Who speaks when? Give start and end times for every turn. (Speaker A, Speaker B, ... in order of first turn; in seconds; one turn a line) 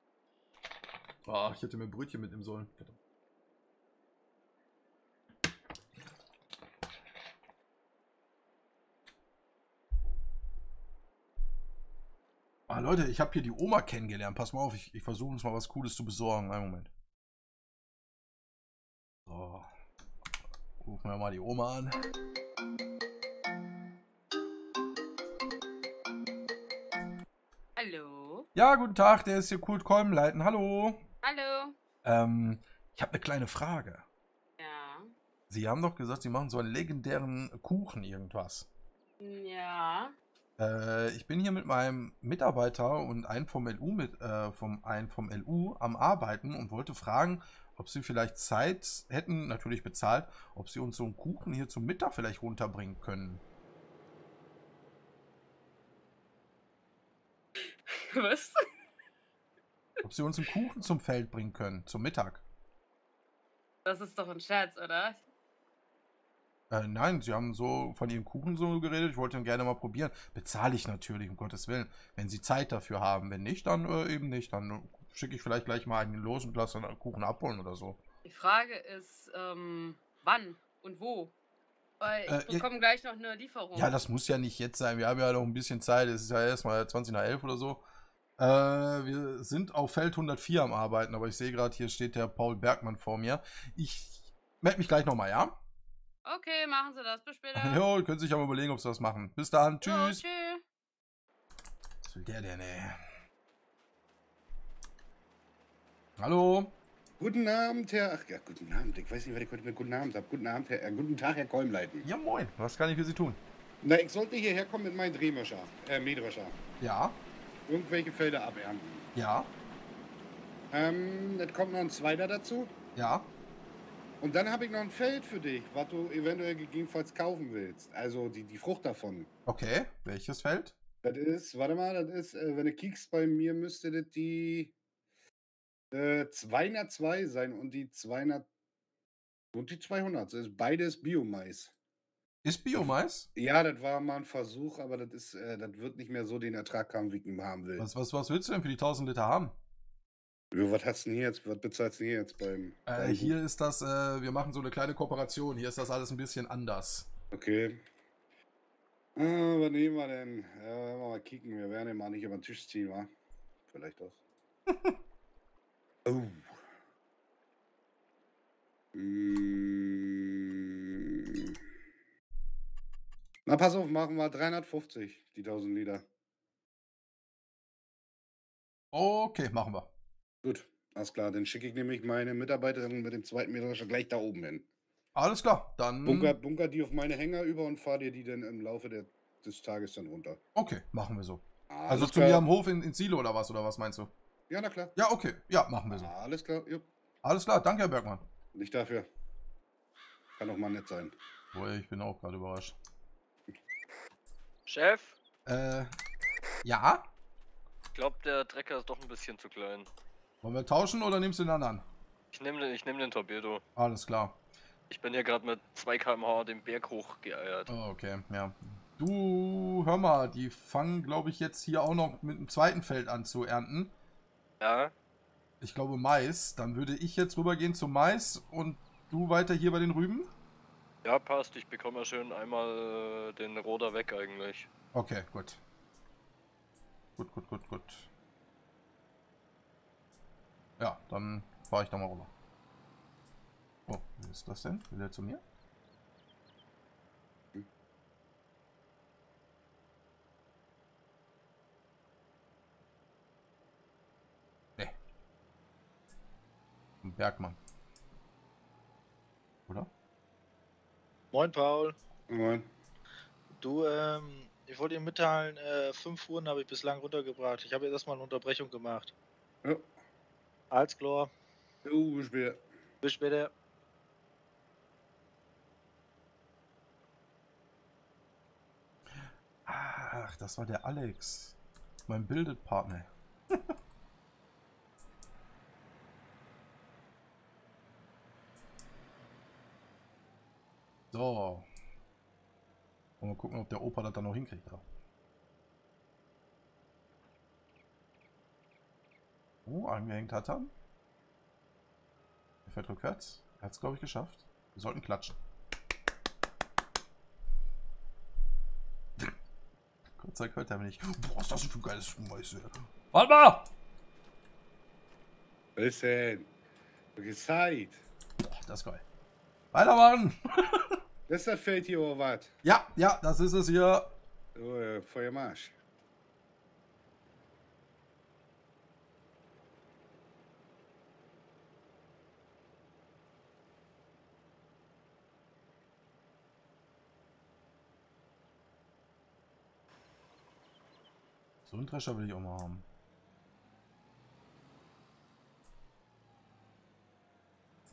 Speaker A: 1.2-3.0
Speaker A: 12.7-16.9
Speaker A: 19.3-19.7
Speaker A: 20.8-22.0
Speaker B: 27.8-28.5
Speaker A: 28.5-31.0
Speaker B: 31.2-31.7
Speaker A: 32.0-34.0
Speaker B: 34.6-35.1
Speaker A: 35.5-38.7
Speaker B: 39.2-40.1
Speaker A: 40.6-53.4
Speaker B: 57.9-58.6
Speaker A: 60.0-62.4
Speaker B: 63.8-65.2
Speaker A: 66.7-78.0
Speaker B: 78.2-81.3
Speaker B: 82.0-83.9
Speaker A: 82.2-82.7
Speaker A: 83.7-87.8
Speaker A: 88.4-95.5
Speaker B: 96.2-97.8
Speaker A: 97.5-100.2
Speaker B: 99.8-100.6
Speaker A: 102.0-103.0
Speaker A: 106.2-106.7
Speaker C: 107.2-112.0
Speaker A: 112.0-113.4
Speaker C: 113.8-116.6
Speaker A: 116.8-117.2
Speaker C: 117.7-119.1
Speaker A: 119.1-119.5
Speaker C: 120.7-122.7
Speaker A: 123.0-123.3
Speaker C: 124.2-129.3
Speaker A: 129.4-130.8
Speaker C: 131.0-134.7
Speaker C: 135.9-138.5
Speaker C: 139.5-141.7
Speaker A: 142.4-143.3
Speaker C: 142.8-147.8
Speaker A: 147.8-149.6
Speaker C: 150.5-153.3
Speaker A: 152.9-157.1
Speaker C: 157.3-157.8
Speaker C: 159.2-163.1
Speaker C: 163.7-164.2
Speaker C: 166.0-166.6
Speaker C: 168.9-171.6
Speaker C: 173.4-176.1
Speaker A: 178.9-179.9
Speaker C: 180.4-184.7
Speaker A: 185.1-186.3
Speaker C: 186.0-190.4
Speaker A: 190.6-194.1
Speaker C: 191.7-192.4
Speaker C: 194.5-194.9
Speaker A: 194.9-196.1
Speaker C: 195.9-196.8
Speaker A: 197.2-198.2
Speaker C: 198.5-199.1
Speaker C: 200.4-201.2
Speaker A: 201.5-202.7
Speaker D: 204.7-205.2
Speaker A: 205.4-205.9
Speaker A: 206.6-207.0
Speaker D: 207.9-209.9
Speaker A: 210.4-211.8
Speaker D: 212.3-213.6
Speaker A: 213.8-214.4
Speaker D: 214.9-217.7
Speaker A: 217.7-223.9
Speaker D: 224.6-224.9
Speaker A: 225.6-230.3
Speaker D: 231.0-234.7
Speaker A: 234.9-235.6
Speaker A: 237.2-238.1
Speaker A: 240.8-242.3
Speaker A: 243.9-245.4
Speaker A: 257.0-257.6
Speaker E: 261.3-261.9
Speaker C: 262.3-262.7
Speaker E: 263.5-269.1
Speaker E: 270.7-271.3
Speaker C: 271.8-272.6
Speaker E: 273.0-273.5
Speaker A: 279.7-281.6
Speaker A: 282.1-283.7
Speaker A: 291.1-291.7
Speaker A: 293.2-294.8
Speaker A: 299.6-300.7
Speaker A: 302.7-305.4
Speaker A: 310.2-313.7
Speaker C: 315.8-316.5
Speaker C: 317.1-318.0
Speaker A: 318.4-319.0
Speaker A: 319.7-321.0
Speaker C: 321.3-322.5
Speaker A: 322.6-324.1
Speaker C: 324.5-325.7
Speaker A: 341.7-342.8